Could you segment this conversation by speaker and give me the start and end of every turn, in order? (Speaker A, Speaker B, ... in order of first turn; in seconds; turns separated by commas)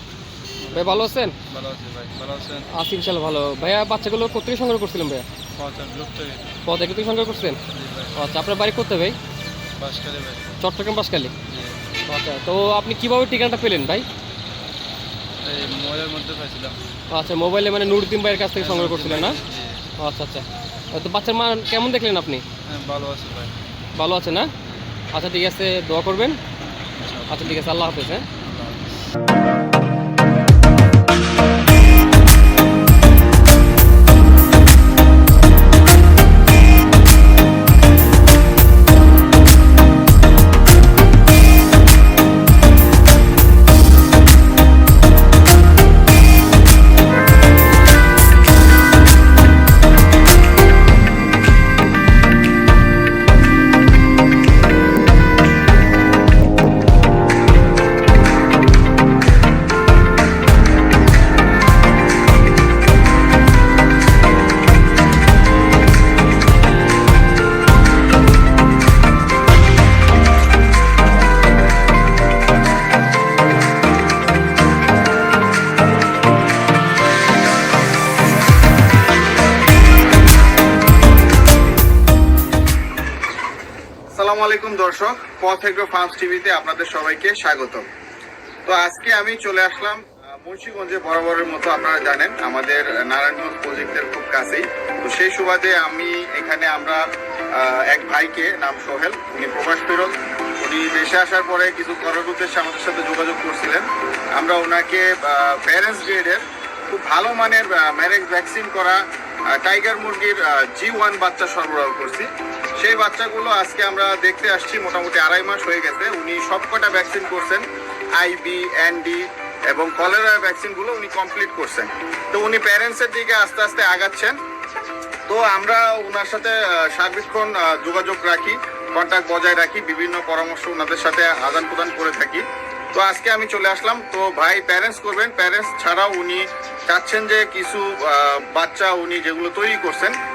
Speaker A: 0.6-2.7, Speaker B: 0.7-1.3, Speaker B: 2.7-5.2, Speaker A: 5.5-6.6, Speaker B: 6.7-7.6, Speaker A: 7.7-8.3, Speaker B: 8.2-9.2, Speaker A: 9.8-10.6, Speaker B: 10.6-11.3, Speaker A: 11.5-11.9, Speaker B: 12.1-14.1, Speaker A: 15.4-16.8, Speaker B: 17.1-19.4, Speaker A: 18.5-19.9, Speaker B: 20.0-22.4, Speaker A: 22.6-23.5, Speaker B: 23.9-24.5, Speaker B: 25.1-26.4, Speaker A: 27.0-27.7, Speaker B: 27.3-28.2, Speaker A: 28.4-29.0, Speaker C: 84.1-87.9, Speaker C: 88.7-109.0, Speaker C: 109.6-117.6, Speaker C: 118.2-124.4, Speaker C: 125.3-140.1